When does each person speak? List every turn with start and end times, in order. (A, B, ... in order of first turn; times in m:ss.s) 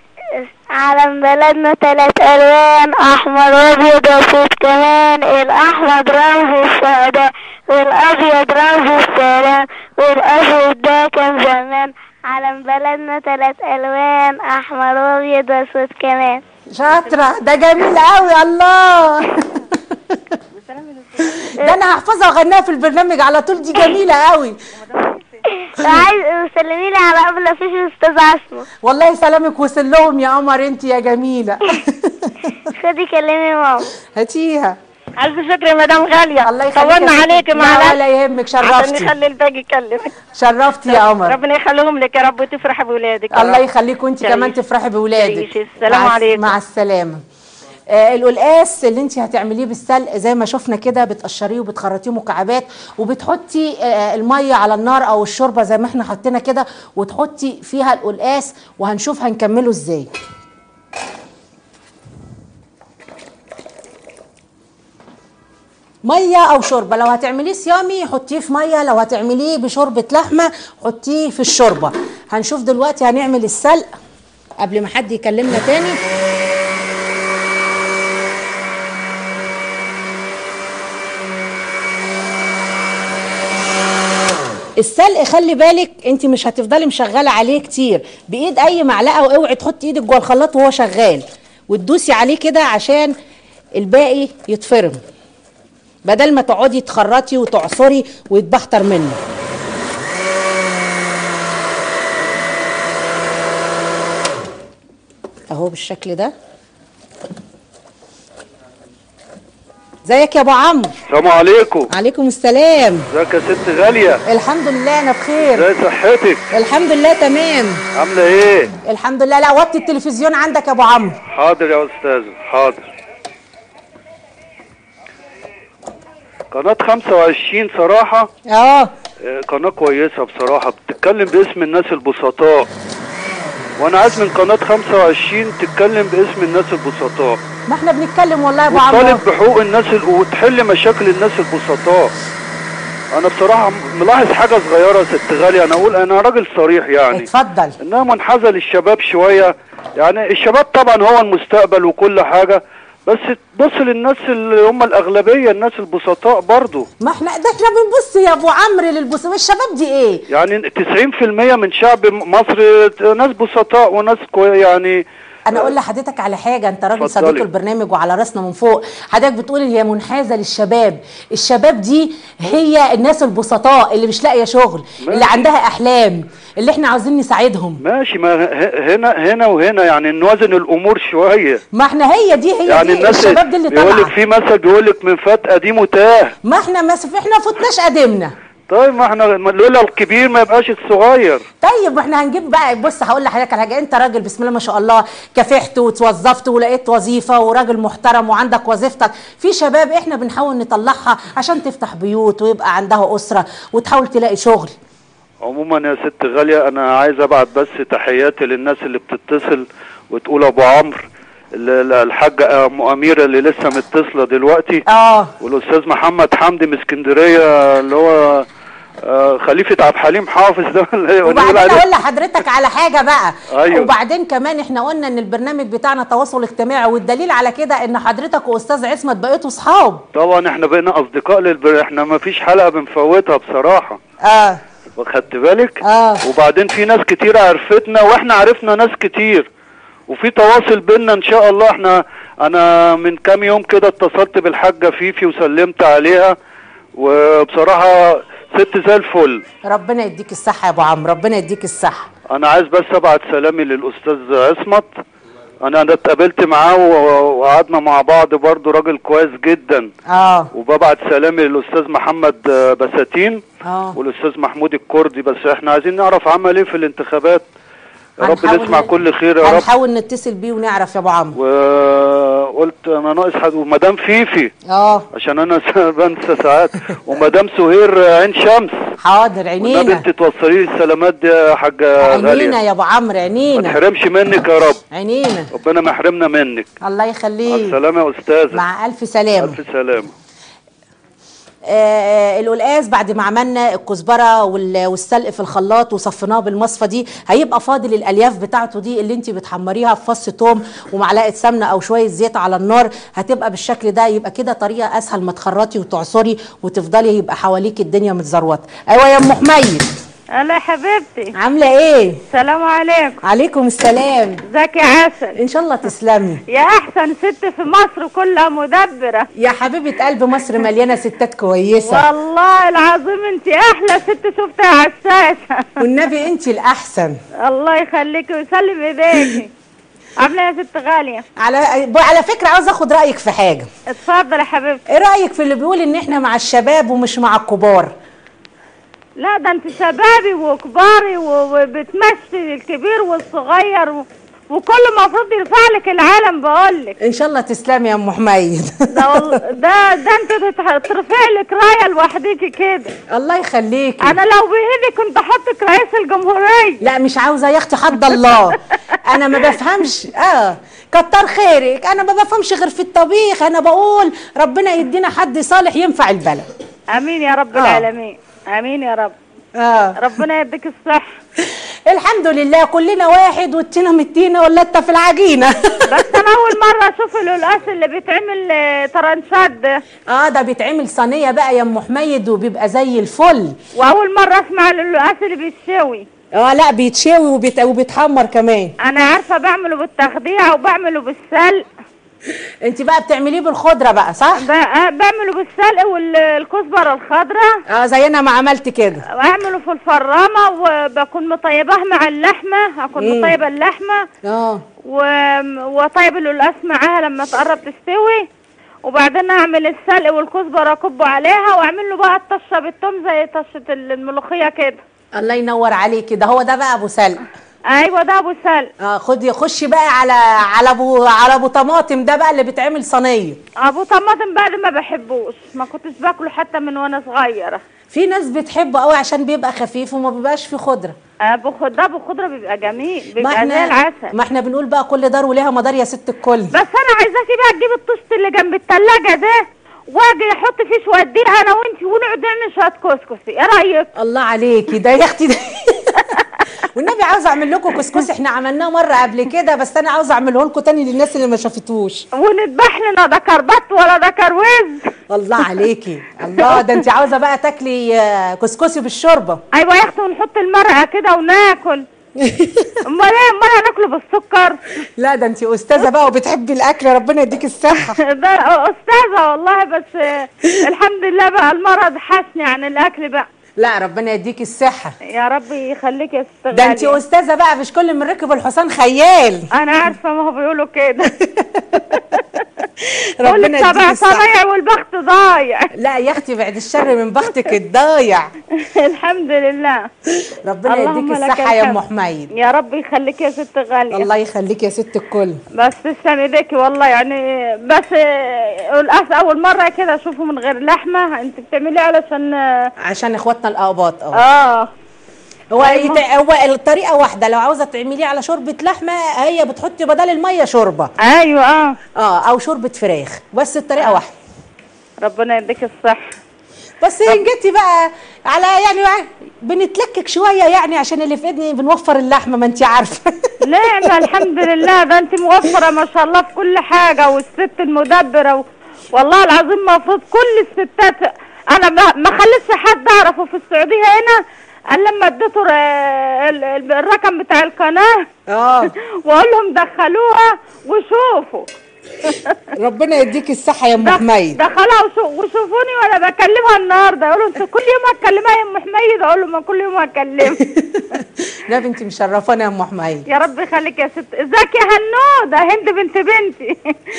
0:00.4-0:16.4 A
0:16.7-0:19.4 B
0:21.4-0:24.6 B
0:25.6-0:28.7 A
0:28.8-0:32.5 B
0:32.7-0:33.9 A
0:34.0-0:34.8 B
0:35.2-0:38.0 C
0:36.4-0:39.2 B
0:38.6-0:40.0 C
0:40.4-0:41.4 B
0:40.9-0:43.6 C
0:43.3-0:47.2 B
0:44.2-0:44.6 C
0:45.2-0:46.5 C
0:47.9-1:00.1 B
1:06.0-1:13.9 B
1:14.6-1:16.0 B
1:24.8-1:33.1 B
1:33.8-1:35.0 B
1:36.0-1:39.2 B
1:45.5-1:46.3 B
1:50.0-1:50.9 B
1:51.1-1:51.9 D
1:51.9-1:53.0 B
1:53.1-1:54.2 D
1:54.3-1:55.6 B
1:55.5-1:56.4 D
1:56.5-1:57.8 B
1:58.0-1:58.7 D
1:58.9-2:01.2 B
2:01.3-2:02.8 D
2:06.5-2:08.3 D
2:08.5-2:08.9 B
2:09.2-2:12.7 D
2:13.8-2:17.4 D
2:17.7-2:19.2 B
2:18.7-2:22.1 D
2:23.2-2:27.3 D
2:27.1-2:27.8 B
2:27.8-2:36.9 D
2:37.0-2:40.2 B
2:40.3-2:45.0 D
2:45.5-2:57.8 B
2:47.0-2:47.4 D
2:55.0-2:55.4 D
2:57.8-3:01.6 D
3:01.7-3:04.1 B
3:02.7-3:06.3 D
3:06.4-3:08.3 B
3:08.7-3:11.4 D
3:11.6-3:24.7 B
3:25.4-3:34.8 D
3:34.9-3:35.3 B
3:35.4-3:38.4 D
3:39.1-3:41.8 D
3:41.2-3:50.0 B
3:43.6-3:43.9 D
3:50.2-3:54.0 D
3:54.2-3:54.6 B
3:55.0-3:59.5 D
3:55.8-3:56.2 B
4:00.1-4:06.3 D
4:07.0-4:09.4 D
4:09.7-4:12.1 B
4:12.3-4:14.9 D
4:15.6-4:19.9 D
4:20.1-4:20.5 B
4:20.5-4:23.4 D
4:23.6-4:24.0 B
4:24.0-4:27.5 D
4:28.2-4:31.4 B
4:28.2-4:29.7 D
4:31.4-4:34.5 D
4:34.7-4:35.0 B
4:35.2-4:38.7 D
4:39.0-4:40.0 B
4:39.6-4:42.6 D
4:42.0-4:43.8 B
4:43.6-4:44.8 D
4:44.9-4:45.5 B
4:45.5-4:46.7 D
4:46.8-4:47.8 B
4:47.5-4:48.6 D
4:48.5-4:49.6 B
4:49.4-4:50.1 D
4:51.7-5:09.9 B
5:10.4-5:11.3 C
5:11.4-5:12.2 B
5:12.3-5:13.2 C
5:13.2-5:14.4 B
5:14.5-5:15.4 C
5:15.4-5:16.4 B
5:16.5-5:19.3 C
5:19.4-5:22.0 B
5:21.8-5:25.7 C
5:25.8-5:27.2 B
5:27.4-5:29.5 C
5:30.2-5:31.2 C
5:31.4-5:33.7 B
5:33.9-5:34.8 C
5:34.9-5:37.9 B
5:39.2-5:47.0 C
5:47.0-5:49.4 B
5:48.9-5:52.9 C
5:53.1-5:54.2 B
5:54.0-5:56.8 C
5:56.8-6:06.5 B
6:07.0-6:09.1 C
6:07.5-6:07.8 B
6:09.6-6:10.0 B
6:10.0-6:11.2 C
6:11.4-6:16.0 B
6:15.9-6:19.7 C
6:20.1-6:23.6 B
6:23.8-6:26.1 C
6:26.3-6:28.7 B
6:28.8-6:31.6 C
6:32.6-6:34.4 B
6:34.4-6:37.5 C
6:37.7-6:39.0 B
6:39.2-6:44.0 C
6:43.0-6:43.4 B
6:44.2-6:44.6 B
6:44.9-6:48.2 C
6:48.9-6:54.8 C
6:55.2-6:57.2 B
6:57.7-6:58.7 C
6:58.8-7:03.4 B
7:03.6-7:07.6 C
7:07.9-7:11.0 B
7:11.3-7:14.1 C
7:13.2-7:16.5 B
7:16.5-7:23.9 C
7:24.0-7:26.1 B
7:26.7-7:32.0 B
7:32.2-7:34.8 C
7:35.1-7:39.4 B
7:36.4-7:36.8 C
7:39.5-7:41.8 C
7:42.2-7:42.8 B
7:42.9-7:44.6 C
7:45.0-7:48.0 B
7:48.0-7:53.3 C
7:53.6-7:55.0 B
7:55.1-7:57.0 C
7:56.5-7:59.5 B
7:59.5-8:01.1 C
8:01.1-8:02.0 B
8:01.9-8:02.7 C
8:02.8-8:04.2 B
8:03.2-8:05.7 C
8:05.8-8:08.3 B
8:08.6-8:09.9 C
8:10.2-8:12.3 B
8:10.7-8:11.8 C
8:12.4-8:14.1 C
8:13.9-8:15.4 B
8:15.6-8:22.7 C
8:22.8-8:24.2 B
8:24.2-8:24.7 C
8:25.5-8:30.9 B
8:25.6-8:26.0 C
8:31.0-8:31.7 C
8:32.0-8:34.1 B
8:35.0-8:36.1 C
8:36.8-8:43.1 B
8:43.5-8:48.4 C
8:48.9-8:54.2 C
8:54.7-8:58.0 C
8:58.3-8:58.7 B
8:59.1-9:01.5 C
9:02.1-9:02.4 C
9:02.6-9:04.4 B
9:03.8-9:10.4 C
9:10.4-9:13.0 B
9:13.1-9:16.6 C